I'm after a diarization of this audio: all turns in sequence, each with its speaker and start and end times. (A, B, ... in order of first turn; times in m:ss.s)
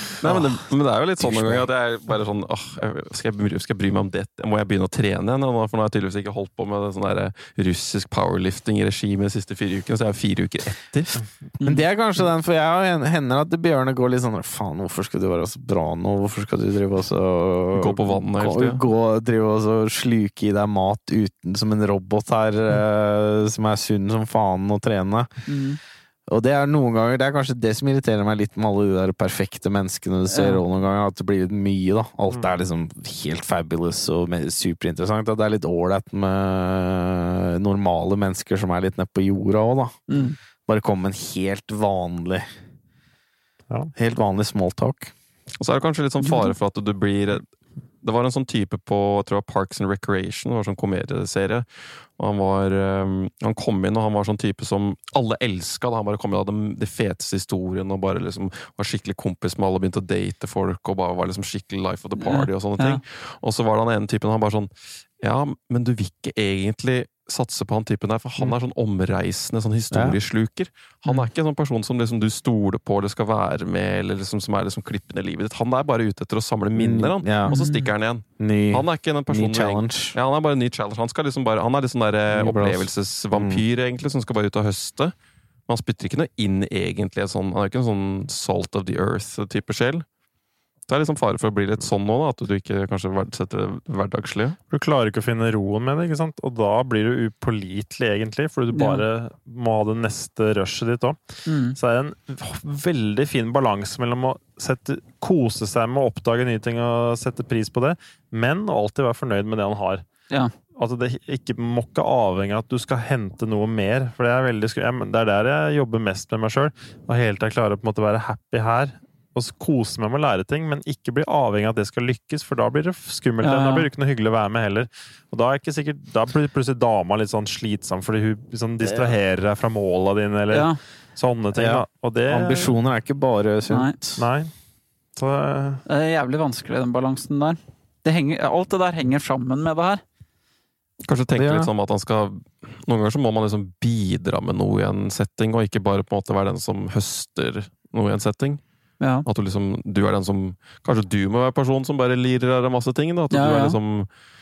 0:00.2-0:11.2 A
0:00.2-0:00.5 B
0:01.2-0:01.7 C
0:11.6-0:25.3 C
0:17.7-0:18.8 A
0:25.5-0:25.8 D
0:26.3-0:40.0 C
0:30.3-0:30.6 D
0:40.1-0:40.4 D
0:40.7-0:42.4 C
0:44.0-0:45.1 C
0:45.6-0:47.5 A
0:46.2-0:46.5 D
0:48.0-1:25.1 A
1:02.2-1:03.0 D
1:09.9-1:10.2 C
1:16.8-1:17.6 C
1:17.5-1:17.9 D
1:18.4-1:20.2 C
1:22.3-1:23.6 C
1:25.7-1:30.0 A
1:30.9-1:34.6 A
1:34.7-1:50.0 B
1:38.7-1:39.0 D
1:41.5-1:41.8 D
1:50.7-2:12.8 B
2:03.4-2:03.9 D
2:08.8-2:09.1 C
2:10.5-2:10.8 D
2:11.5-2:14.2 C
2:13.7-2:14.0 D
2:14.2-2:14.5 B
2:15.2-2:15.8 B
2:15.9-2:20.0 D
2:21.0-2:28.6 A
2:21.4-2:21.7 C
2:29.0-2:29.3 D
2:29.3-2:34.1 A
2:33.3-2:33.8 D